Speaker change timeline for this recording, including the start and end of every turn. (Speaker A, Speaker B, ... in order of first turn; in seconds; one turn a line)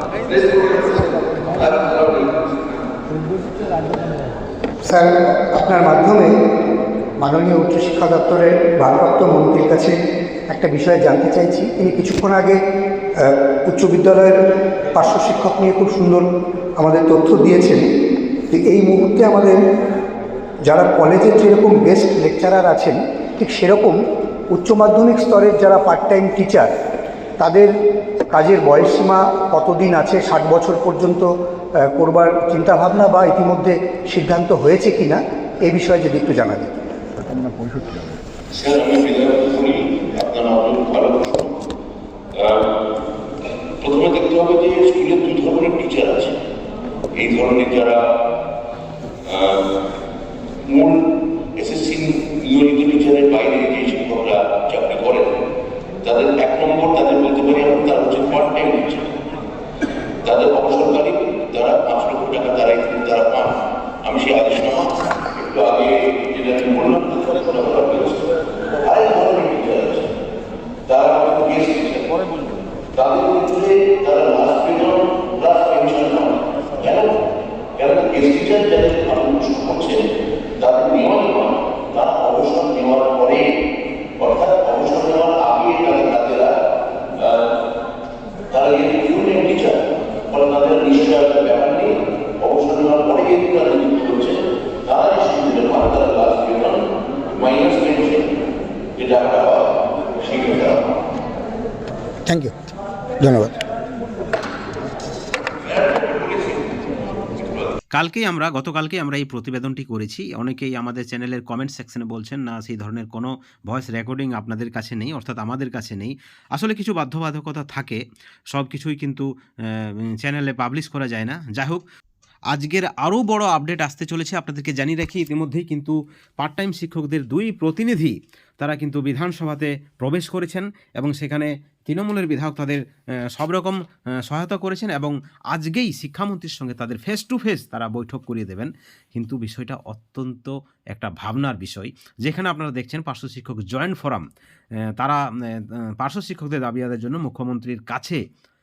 Speaker A: 0.3-2.5
Speaker B: 4.9-6.3
Speaker B: 7.2-10.0
Speaker B: 10.5-12.6
Speaker B: 13.2-14.4
Speaker B: 14.9-16.2
Speaker B: 16.8-17.9
Speaker B: 18.5-19.6
Speaker B: 20.7-24.0
Speaker B: 24.5-26.7
Speaker B: 27.4-27.7
Speaker B: 28.3-31.3
Speaker B: 31.9-36.7
Speaker A: 38.5-41.5
Speaker A: 42.4-42.8
Speaker A: 43.8-46.4
Speaker A: 47.1-48.1
Speaker A: 49.3-49.7
Speaker A: 50.7-51.0
Speaker A: 51.6-55.4
Speaker A: 56.0-59.1
Speaker A: 60.2-68.3
Speaker A: 68.8-70.2
Speaker A: 70.9-72.2
Speaker A: 73.0-77.2
Speaker A: 77.8-83.5
Speaker A: 84.2-86.6
Speaker A: 87.2-87.5
Speaker A: 88.5-98.3
Speaker A: 99.0-100.8
Speaker B: 102.3-102.5
Speaker B: 103.2-103.6
Speaker A: 105.7-106.8
Speaker A: 107.4-107.7
Speaker C: 107.9-121.8
Speaker C: 122.5-144.2
Speaker C: 145.0-148.2